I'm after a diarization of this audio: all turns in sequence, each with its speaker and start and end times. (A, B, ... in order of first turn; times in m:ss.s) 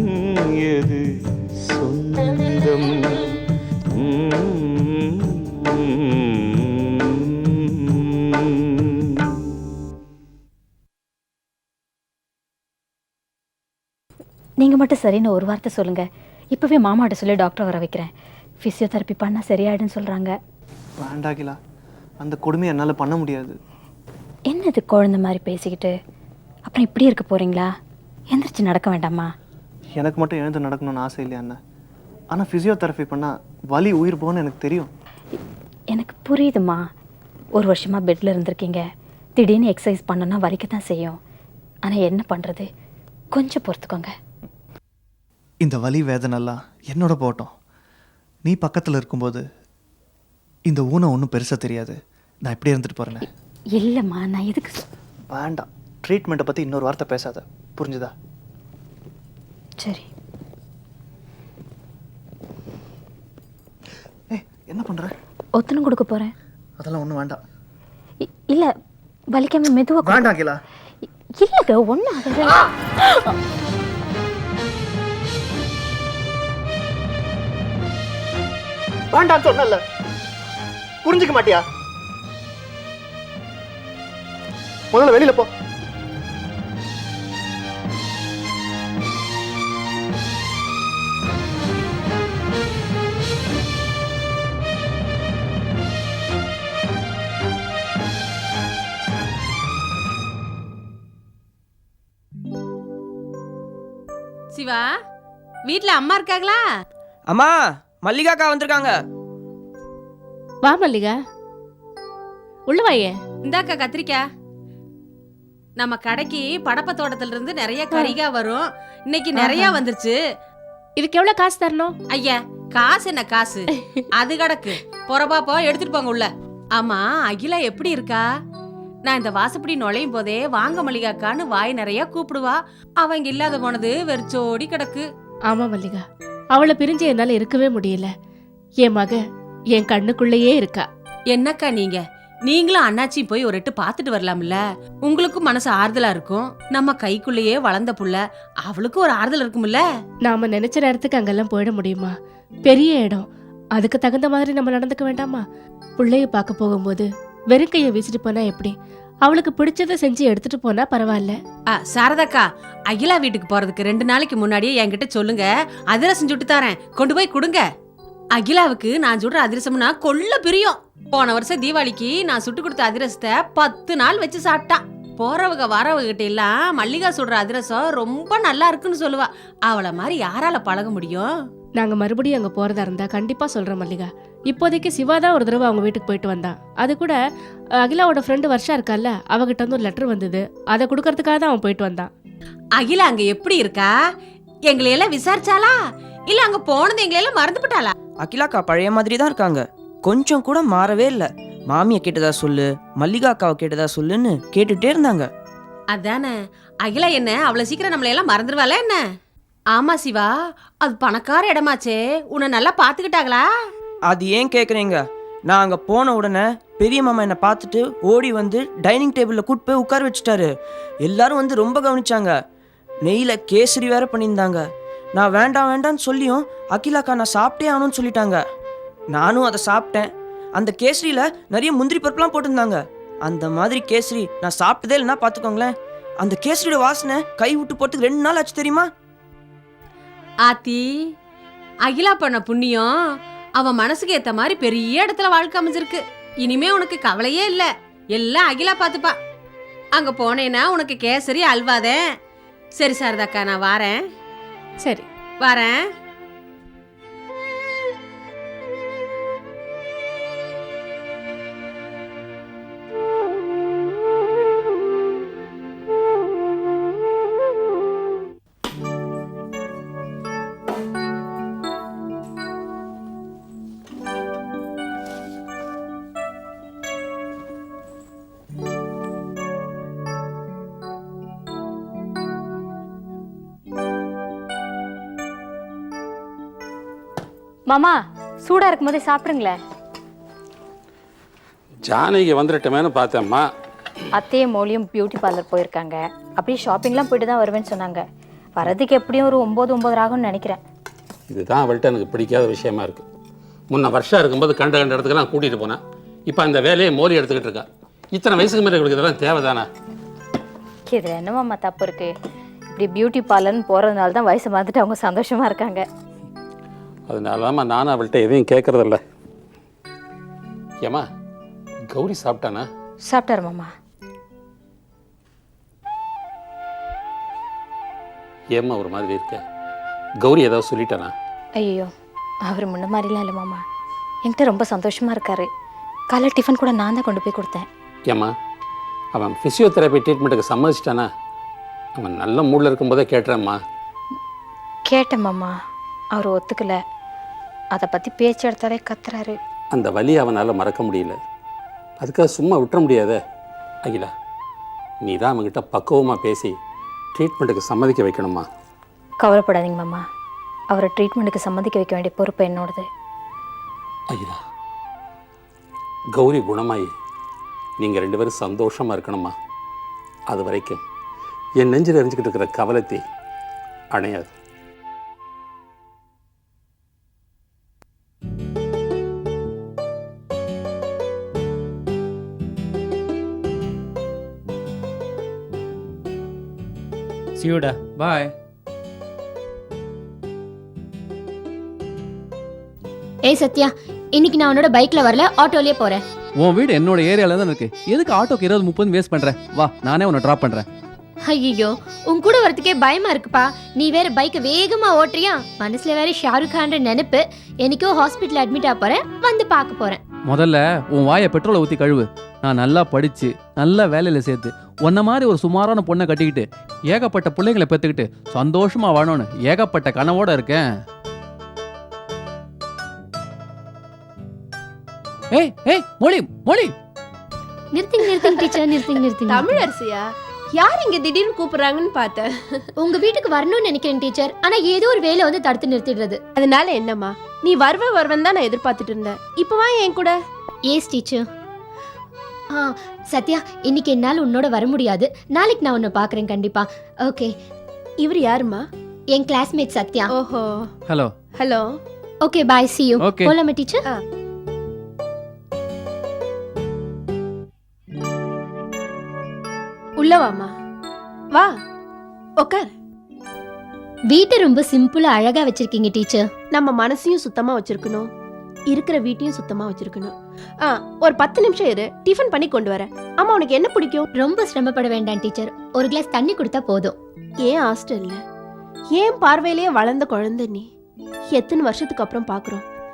0:00.6-0:01.0 A
0:01.7-0:03.2 A
0:04.0-0:04.8 A
0:14.6-0:18.1 B
0:18.6-0:20.3 B
0:21.0-0:21.6 C
0:22.2-0:23.6 C
0:24.5-0:25.9 B
0:26.7-0:27.7 B
0:28.3-0:29.3 B
0:30.0-0:31.6 C
0:32.3-0:34.9 C
0:35.9-0:36.8 B
0:37.6-0:38.8 B
0:39.4-0:41.2 B
0:41.9-0:42.7 B
0:43.3-0:44.1 B
0:45.6-0:47.5 C
0:48.5-0:49.4 C
0:50.7-0:53.3 C
0:53.7-0:54.8 B
0:55.3-0:58.1 C
0:59.8-1:00.1 B
1:04.3-1:05.1 C
1:05.6-1:06.3 B
1:06.8-1:07.4 C
1:08.2-1:08.7 B
1:09.3-1:10.3 B
1:10.0-1:10.6 C
1:11.4-1:12.6 B
1:19.1-1:19.8 C
1:21.0-1:21.6 C
1:24.9-1:25.5 C
1:44.5-1:44.9 D
1:45.7-1:46.6 D
1:47.3-1:48.9 E
1:50.6-1:51.2 F
1:52.7-1:53.1 F
1:53.5-1:54.2 D
1:55.8-2:00.2 D
1:59.4-1:59.8 F
2:01.0-2:02.0 F
2:02.1-2:03.7 D
2:04.2-2:08.2 D
2:09.0-2:15.0 D
2:15.5-2:16.0 F
2:16.5-2:18.1 F
2:18.8-2:19.2 F
2:19.7-2:20.9 F
2:21.3-2:29.8 D
2:30.2-2:32.1 F
2:32.7-2:35.4 F
2:36.0-2:41.4 F
2:41.7-2:47.6 D
2:48.4-3:01.3 D
3:01.8-3:07.2 F
3:07.8-3:12.1 F
3:12.8-3:13.9 D
3:14.7-3:15.8 D
3:16.3-3:17.9 D
3:18.2-3:25.3 E
3:25.9-3:29.0 D
3:29.7-3:30.3 D
3:30.8-3:33.4 D
3:34.1-3:40.5 E
3:41.0-3:42.3 E
3:43.0-3:44.6 E
3:45.2-3:48.4 E
3:49.1-3:58.9 E
4:00.5-4:00.8 D
4:01.9-4:02.9 D
4:03.6-4:09.1 D
4:10.0-4:12.0 D
4:12.8-4:14.0 D
4:14.8-4:15.1 F
4:15.4-4:15.8 D
4:47.7-4:49.6 B
4:51.9-4:53.5 G
4:54.2-4:58.0 B
4:58.6-5:00.6 B
5:01.3-5:03.0 G
5:03.7-5:09.7 G
5:10.9-5:12.1 B
5:12.7-5:15.8 B
5:17.1-5:19.0 G
5:21.9-5:22.7 G
5:23.0-5:23.7 B
5:28.5-5:29.4 G
5:30.2-5:31.1 G
5:31.6-5:31.9 B
5:32.5-5:33.6 B
5:34.2-5:35.5 B
5:36.1-5:37.7 B
5:39.1-5:41.1 G
5:42.0-5:43.6 G
5:44.9-5:45.6 B
5:46.1-5:46.8 B
5:47.7-5:49.4 B
5:49.7-5:51.2 G
5:52.0-5:53.2 G
5:53.8-5:54.1 G
5:55.0-5:56.6 G
5:57.2-5:58.5 G
5:59.2-6:00.0 B
6:00.7-6:02.9 B
6:04.1-6:04.4 G
6:06.1-6:06.9 G
6:07.8-6:09.3 G
6:10.3-6:10.8 G
6:11.6-6:13.0 G
6:13.9-6:14.3 G
6:27.4-6:28.3 H
6:33.3-6:36.0 I
6:36.4-6:40.7 H
6:41.3-6:50.0 I
6:50.3-7:00.7 H
7:05.3-7:06.7 H
7:07.7-7:09.7 I
7:08.0-7:10.0 J
7:10.6-7:12.3 J
7:12.8-7:16.2 I
7:16.4-7:20.2 J
7:20.7-7:21.2 I
7:22.5-7:27.3 I
7:28.0-7:28.6 J
7:29.1-7:30.1 I
7:30.1-7:30.7 J
7:31.4-7:31.7 J
7:32.2-7:33.8 I
7:33.0-7:33.4 H
7:40.0-7:40.5 J
7:42.4-7:42.7 J
7:44.1-7:46.2 I
7:46.5-7:48.1 J
7:48.7-7:54.1 J
7:54.2-7:57.0 I
7:57.4-7:58.2 J
7:59.0-8:00.6 J
8:01.4-8:02.6 J